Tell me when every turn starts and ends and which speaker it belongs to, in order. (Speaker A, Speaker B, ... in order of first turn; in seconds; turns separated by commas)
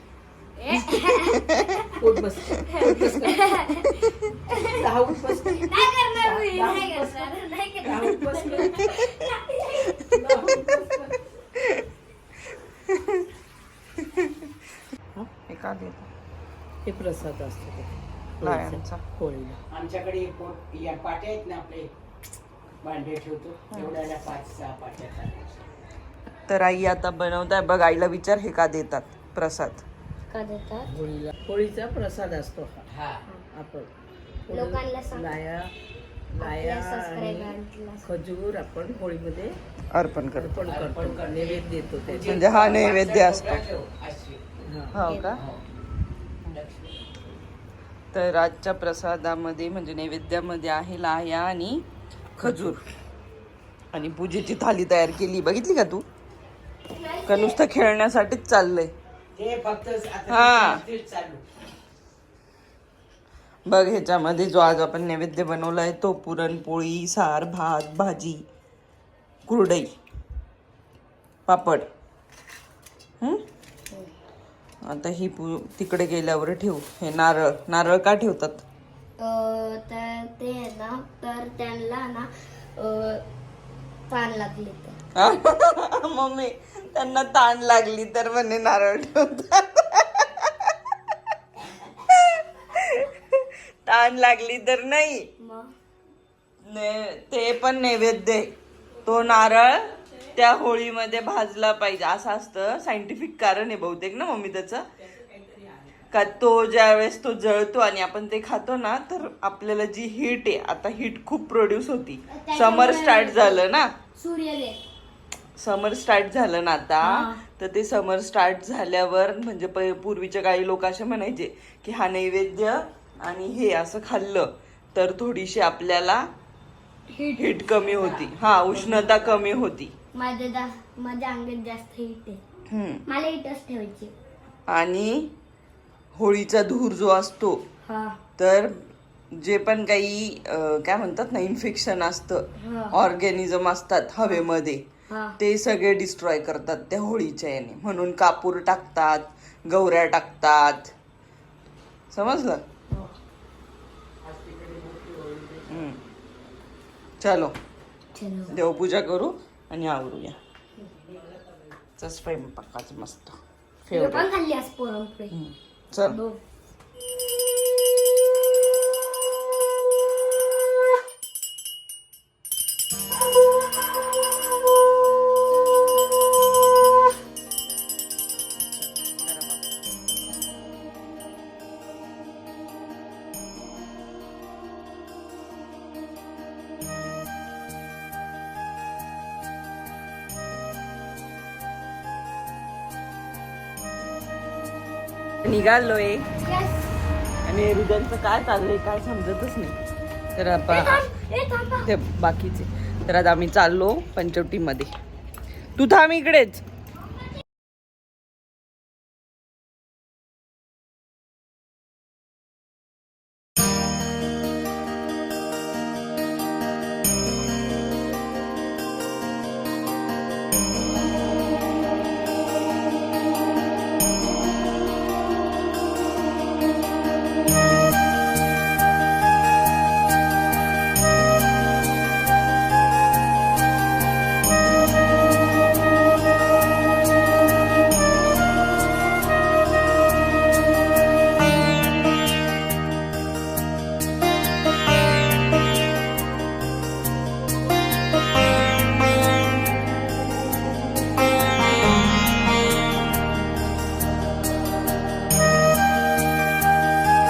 Speaker A: 0.6-4.8, Speaker B: 2.0-3.5, Speaker B: 4.5-9.0, Speaker A: 5.4-10.5, Speaker B: 10.1-11.2, Speaker C: 11.6-11.8, Speaker C: 12.9-13.3, Speaker C: 14.0-14.6, Speaker C: 15.5-16.1, Speaker B: 16.8-19.6, Speaker C: 18.4-19.0, Speaker D: 19.7-21.9, Speaker D: 22.8-25.4, Speaker C: 23.7-24.0, Speaker C: 26.5-29.8, Speaker A: 30.3-30.9, Speaker B: 30.9-32.8, Speaker D: 32.9-33.2, Speaker B: 33.5-33.9, Speaker B: 34.5-35.7, Speaker A: 34.5-35.3, Speaker B: 36.4-39.5, Speaker A: 36.4-38.0, Speaker C: 39.9-40.7, Speaker B: 40.3-42.3, Speaker D: 40.6-44.4, Speaker C: 42.2-43.6, Speaker B: 44.6-45.0, Speaker C: 44.9-45.4, Speaker A: 45.0-45.3, Speaker D: 45.3-45.6, Speaker D: 46.5-47.0, Speaker C: 48.1-51.9, Speaker C: 52.4-52.8, Speaker B: 52.4-52.8, Speaker C: 53.9-56.0, Speaker A: 56.9-57.6, Speaker C: 57.3-58.9, Speaker D: 59.3-61.4, Speaker C: 60.3-60.8, Speaker C: 63.7-68.4, Speaker C: 69.5-69.9, Speaker C: 71.5-71.9, Speaker C: 74.8-78.6, Speaker A: 79.2-83.2, Speaker A: 84.1-85.0, Speaker C: 85.1-91.1, Speaker C: 91.8-95.3, Speaker A: 95.4-95.7, Speaker C: 96.6-98.5, Speaker C: 99.0-104.8, Speaker D: 105.1-106.0, Speaker C: 106.1-113.9, Speaker A: 112.3-114.8, Speaker C: 115.6-126.3, Speaker A: 127.1-127.6, Speaker C: 127.4-129.9, Speaker D: 127.8-129.5, Speaker A: 130.1-132.4, Speaker C: 132.7-133.0, Speaker A: 133.1-134.1, Speaker C: 134.7-135.3, Speaker C: 136.1-137.6, Speaker A: 137.8-138.2, Speaker C: 138.4-144.8, Speaker A: 142.6-143.0, Speaker A: 145.1-145.4, Speaker C: 145.4-150.9, Speaker C: 152.1-152.6, Speaker A: 152.9-153.1, Speaker D: 154.2-155.9, Speaker C: 155.7-156.0, Speaker C: 157.2-157.5, Speaker A: 158.1-158.6, Speaker C: 158.5-160.4, Speaker D: 161.1-161.6, Speaker C: 162.0-163.3, Speaker C: 163.9-164.3, Speaker A: 163.9-165.3, Speaker C: 165.3-166.2, Speaker A: 166.0-166.4, Speaker C: 178.7-179.6, Speaker C: 195.4-196.3, Speaker A: 196.4-197.0, Speaker C: 197.4-199.8, Speaker C: 200.3-201.0, Speaker A: 200.7-201.9, Speaker C: 201.8-204.9, Speaker C: 205.8-206.6